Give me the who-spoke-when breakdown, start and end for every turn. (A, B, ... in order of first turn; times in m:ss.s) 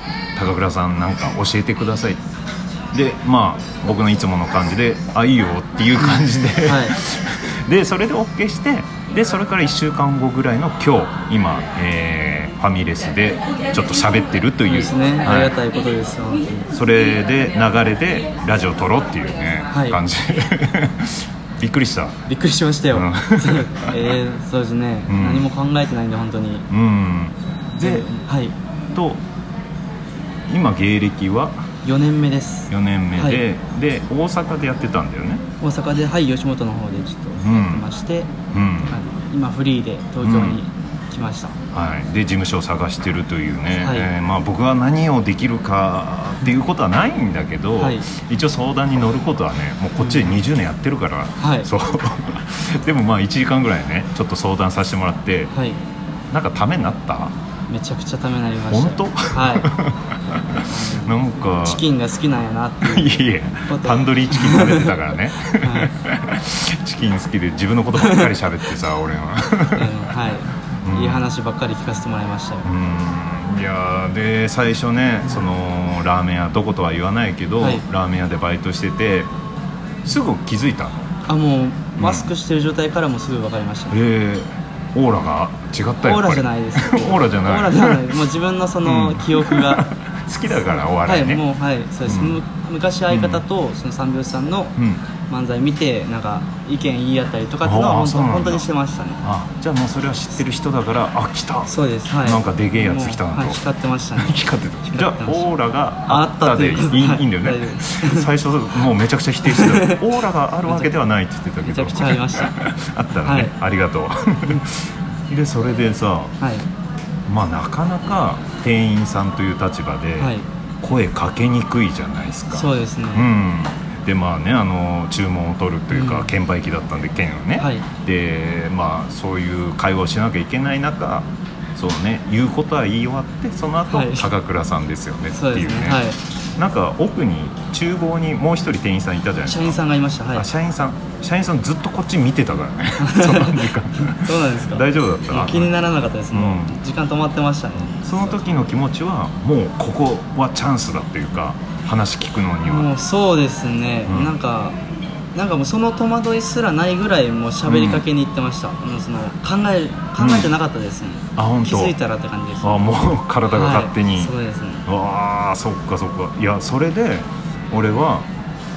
0:00.4-0:02.2 A
0:02.9-0:15.6 A
0:06.0-0:07.0 B
0:14.7-0:16.7 B
0:16.7-0:22.2 A
0:19.7-0:20.0 B
0:22.3-0:26.7 B
0:22.9-0:23.9 A
0:25.1-0:25.5 A
0:26.7-0:28.1 A
0:27.8-0:28.6 B
0:29.0-0:29.2 A
0:30.5-0:31.6 A
0:31.8-0:33.4 B
0:32.7-0:35.4 A
0:35.6-0:38.3 B
0:37.4-0:37.8 A
0:38.5-0:39.0 A
0:38.9-0:41.6 B
0:40.2-0:40.6 A
0:41.7-0:55.5 A
0:43.8-0:44.1 B
0:47.8-0:48.1 B
0:50.0-0:50.4 B
0:51.4-0:51.7 B
0:55.5-0:55.8 B
0:56.3-0:57.3 A
0:57.7-0:59.7 B
0:58.7-1:01.8 A
1:00.7-1:05.0 B
1:02.8-1:09.9 A
1:05.6-1:05.9 B
1:08.0-1:08.3 B
1:09.7-1:12.7 B
1:10.9-1:11.2 A
1:12.6-1:19.3 A
1:17.6-1:17.8 B
1:20.0-1:21.1 A
1:21.3-1:24.0 B
1:22.0-1:22.3 A
1:23.9-1:28.1 A
1:26.0-1:29.9 B
1:28.8-1:31.4 A
1:31.0-1:34.8 B
1:32.1-1:32.4 A
1:33.1-1:33.4 A
1:34.8-1:35.0 A
1:35.3-1:39.2 B
1:37.6-1:38.6 A
1:39.2-1:43.6 A
1:41.7-1:45.5 B
1:44.2-1:56.3 A
1:46.1-1:48.3 B
1:49.4-1:50.0 B
1:50.7-1:50.9 B
1:51.6-1:52.5 B
1:53.2-1:53.5 B
1:56.4-1:56.7 B
1:57.3-2:16.0 A
2:00.2-2:00.5 B
2:02.5-2:03.3 B
2:05.9-2:06.3 B
2:07.6-2:07.9 B
2:13.9-2:14.3 B
2:15.3-2:16.2 B
2:16.6-2:19.8 A
2:19.5-2:20.5 B
2:20.4-2:25.8 A
2:23.0-2:28.4 B
2:26.3-2:26.8 A
2:28.0-2:32.9 A
2:32.6-2:34.8 B
2:34.1-2:34.4 A
2:35.3-2:42.9 B
2:37.7-2:38.0 A
2:40.2-2:40.5 A
2:41.4-2:42.0 A
2:42.6-2:44.3 A
2:43.5-2:44.8 B
2:44.9-2:48.3 A